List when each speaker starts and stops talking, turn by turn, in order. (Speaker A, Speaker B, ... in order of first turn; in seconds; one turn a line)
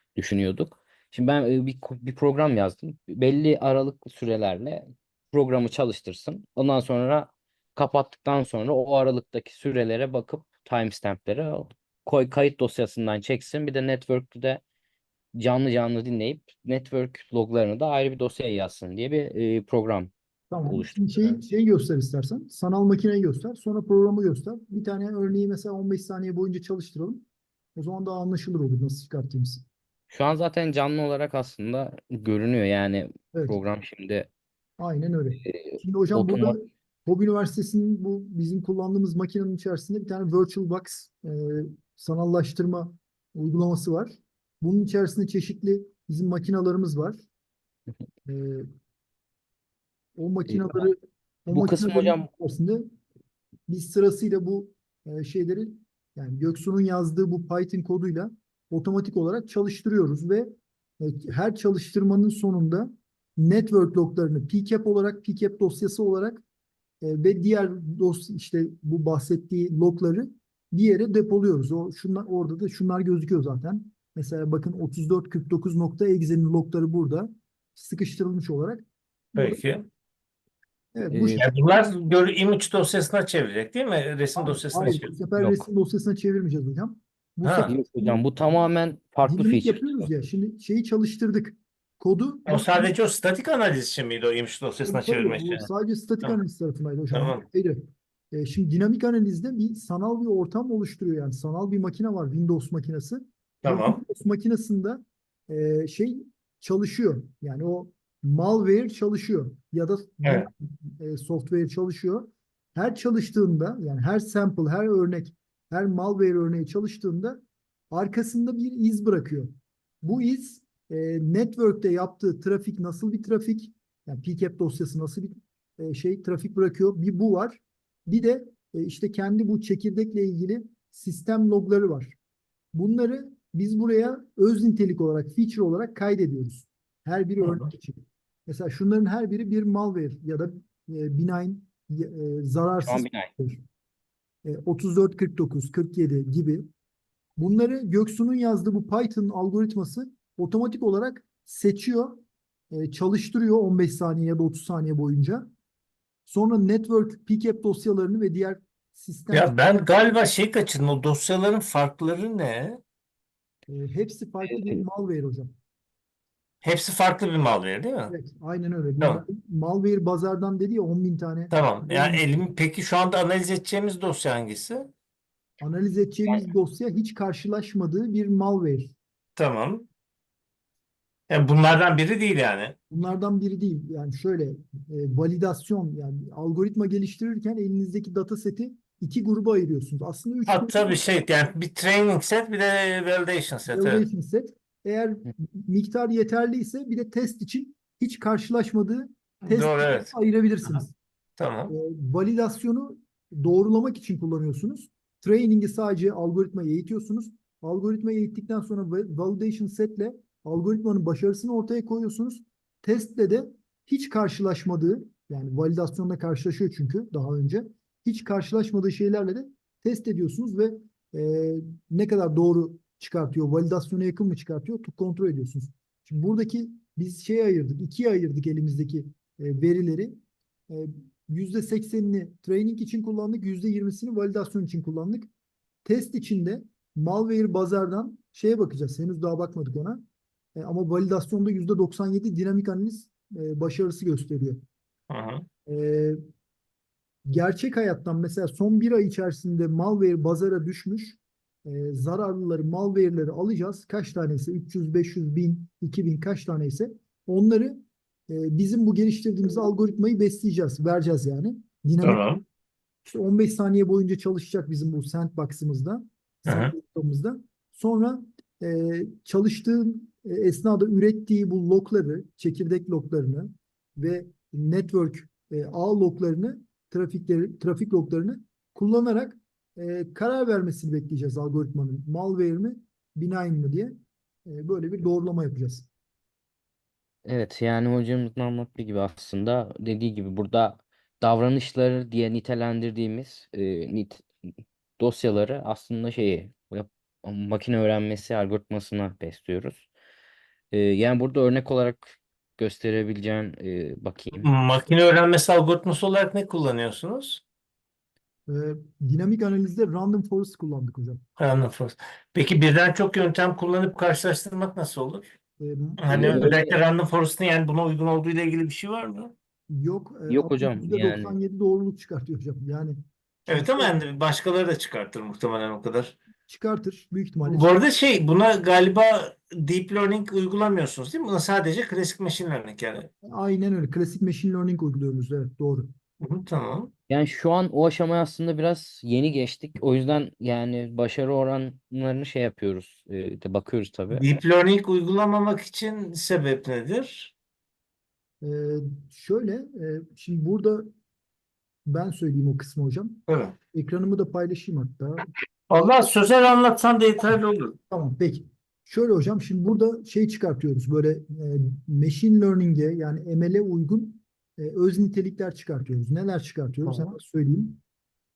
Speaker A: 0.2-14.6
Speaker A: 15.3-20.1
Speaker B: 20.5-29.6
Speaker A: 20.7-21.4
Speaker A: 30.1-34.3
Speaker B: 33.3-33.6
Speaker B: 34.8-47.2
Speaker A: 35.4-36.6
Speaker B: 48.3-48.7
Speaker B: 50.2-52.8
Speaker A: 50.5-50.9
Speaker A: 51.5-52.3
Speaker B: 53.7-60.5
Speaker B: 61.0-66.5
Speaker B: 67.0-79.6
Speaker C: 79.4-79.9
Speaker B: 80.9-81.5
Speaker A: 81.1-81.5
Speaker C: 81.4-85.1
Speaker B: 84.4-88.2
Speaker A: 84.9-85.6
Speaker C: 87.4-87.7
Speaker A: 87.7-90.0
Speaker B: 89.2-92.9
Speaker C: 92.5-95.7
Speaker B: 94.8-119.5
Speaker C: 97.1-97.4
Speaker C: 103.6-104.0
Speaker B: 120.0-132.2
Speaker B: 132.7-143.6
Speaker A: 142.9-143.3
Speaker B: 144.4-146.7
Speaker B: 147.4-155.5
Speaker B: 156.3-159.6
Speaker C: 159.3-162.8
Speaker B: 163.7-165.5
Speaker C: 166.6-168.1
Speaker B: 168.1-172.3
Speaker C: 171.5-174.9
Speaker B: 175.6-178.9
Speaker C: 179.4-179.9
Speaker C: 181.3-182.8
Speaker B: 182.9-191.0
Speaker C: 190.5-194.1
Speaker B: 193.7-200.9
Speaker C: 199.4-200.1
Speaker C: 201.4-201.7
Speaker B: 201.7-230.2
Speaker B: 230.7-235.3
Speaker B: 235.8-240.0
Speaker B: 240.6-244.6
Speaker C: 245.1-245.4
Speaker B: 245.7-246.2
Speaker B: 247.3-262.3
Speaker C: 262.0-262.4
Speaker B: 263.1-283.9
Speaker C: 266.5-266.7
Speaker B: 284.5-285.9
Speaker A: 287.2-294.3
Speaker A: 295.0-299.9
Speaker A: 300.7-304.5
Speaker C: 304.4-307.4
Speaker B: 308.5-311.2
Speaker C: 311.4-315.3
Speaker B: 315.6-316.6
Speaker C: 316.0-319.3
Speaker A: 316.1-316.7
Speaker B: 319.7-323.9
Speaker A: 320.3-321.4
Speaker C: 323.5-326.2
Speaker B: 326.5-327.8
Speaker C: 327.5-333.1
Speaker B: 333.2-335.9
Speaker C: 336.2-336.9
Speaker A: 337.1-344.4
Speaker C: 344.1-347.3
Speaker B: 348.4-350.9
Speaker B: 351.9-353.2
Speaker C: 353.3-353.6
Speaker B: 353.7-355.3
Speaker C: 355.7-357.8
Speaker B: 357.9-367.8